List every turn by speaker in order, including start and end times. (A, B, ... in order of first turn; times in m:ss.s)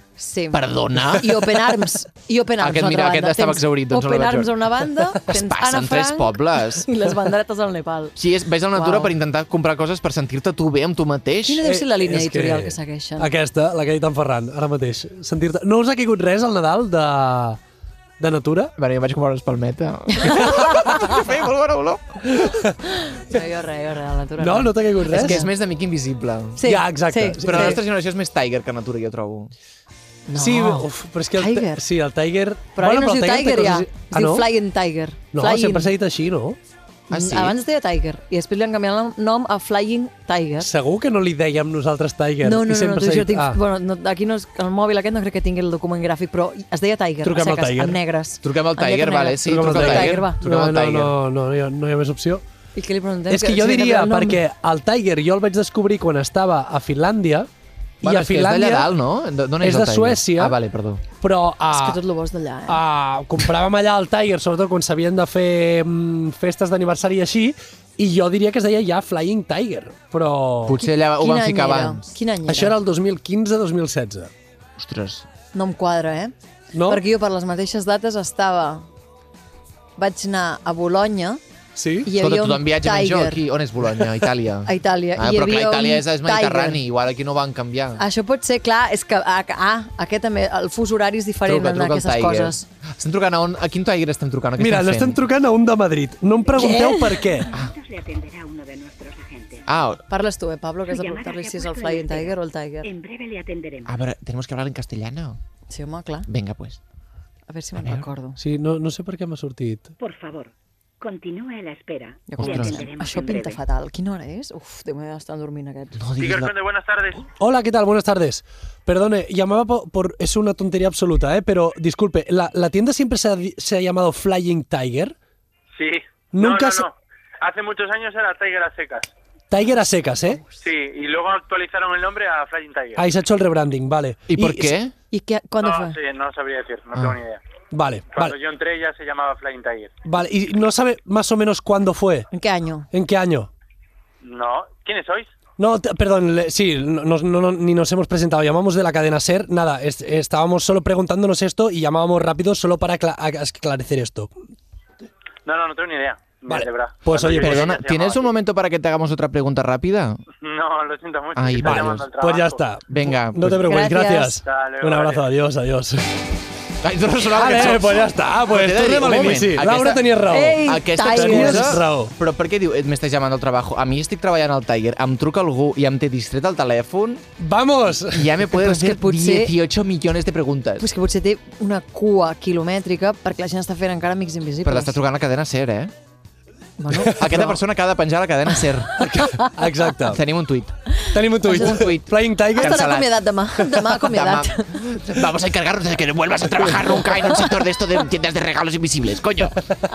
0:00.2-0:08.2 A
0:00.5-0:01.6 B
0:02.6-0:06.9 B
0:08.2-0:11.6 B
0:08.7-0:09.1 A
0:11.5-0:13.3 A
0:11.6-0:17.6 C
0:18.2-0:18.7 C
0:18.8-0:22.4 B
0:20.2-0:21.1 A
0:22.3-0:22.6 C
0:22.9-0:25.5 A
0:24.4-0:25.4 C
0:25.1-0:26.7 B
0:26.6-0:27.8 A
0:26.7-0:27.8 C
0:27.4-0:29.5 B
0:30.3-0:31.8 A
0:30.4-0:34.5 C
0:32.8-0:35.9 A
0:35.3-0:36.6 C
0:37.1-0:40.7 A
0:37.1-0:37.6 B
0:40.6-0:43.6 C
0:42.4-0:50.4 A
0:47.2-0:48.0 C
0:48.4-0:51.2 B
0:49.5-0:52.4 C
0:52.8-0:54.4 A
0:53.3-0:57.5 C
0:58.0-0:58.9 C
0:58.0-1:01.0 B
0:59.6-1:00.6 C
1:01.2-1:02.0 C
1:01.7-1:02.8 A
1:02.7-1:10.8 C
1:10.7-1:12.1 B
1:10.8-1:12.7 A
1:12.5-1:14.3 C
1:14.8-1:15.3 B
1:15.5-1:16.3 A
1:16.7-1:17.0 C
1:16.9-1:18.9 A
1:20.0-1:21.4 A
1:21.8-1:22.1 C
1:22.0-1:23.4 A
1:22.1-1:28.0 B
1:24.7-1:26.8 A
1:28.0-1:32.7 A
1:31.4-1:35.2 B
1:34.6-1:37.5 C
1:36.5-1:37.3 A
1:37.5-1:39.6 D
1:39.7-1:40.0 B
1:40.1-1:42.9 A
1:40.9-1:44.0 D
1:43.9-1:45.4 B
1:45.7-1:46.3 A
1:46.3-1:46.8 B
1:47.5-1:48.4 A
1:47.8-1:48.1 B
1:48.4-1:49.9 C
1:50.0-1:53.6 D
1:52.3-1:56.0 A
1:52.4-1:52.8 B
1:56.0-1:56.5 B
1:56.2-1:57.3 E
1:57.4-2:05.2 C
2:05.7-2:09.1 E
2:06.3-2:06.9 C
2:09.5-2:10.4 C
2:10.6-2:13.0 E
2:13.0-2:14.7 C
2:14.3-2:14.9 B
2:15.1-2:16.0 A
2:15.6-2:17.4 E
2:17.7-2:18.4 C
2:18.1-2:19.9 E
2:20.0-2:22.3 C
2:22.3-2:22.9 A
2:22.9-2:23.5 C
2:24.2-2:25.3 E
2:25.6-2:34.3 C
2:35.4-2:38.3 E
2:36.5-2:37.7 C
2:37.3-2:40.2 B
2:40.4-2:42.6 E
2:41.4-2:42.1 B
2:41.6-2:46.1 C
2:42.9-2:43.6 B
2:43.6-2:44.4 A
2:44.4-2:45.3 E
2:46.8-2:57.3 B
2:47.3-2:52.1 C
2:50.3-2:51.8 A
2:57.4-2:58.4 C
2:58.1-3:00.9 B
2:58.6-2:59.6 A
3:00.8-3:05.0 A
3:04.6-3:05.9 B
3:06.8-3:07.6 A
3:07.1-3:09.1 B
3:09.0-3:10.2 C
3:10.0-3:10.8 B
3:10.9-3:12.0 A
3:11.1-3:12.9 C
3:11.4-3:13.1 B
3:12.5-3:15.0 A
3:13.9-3:19.7 B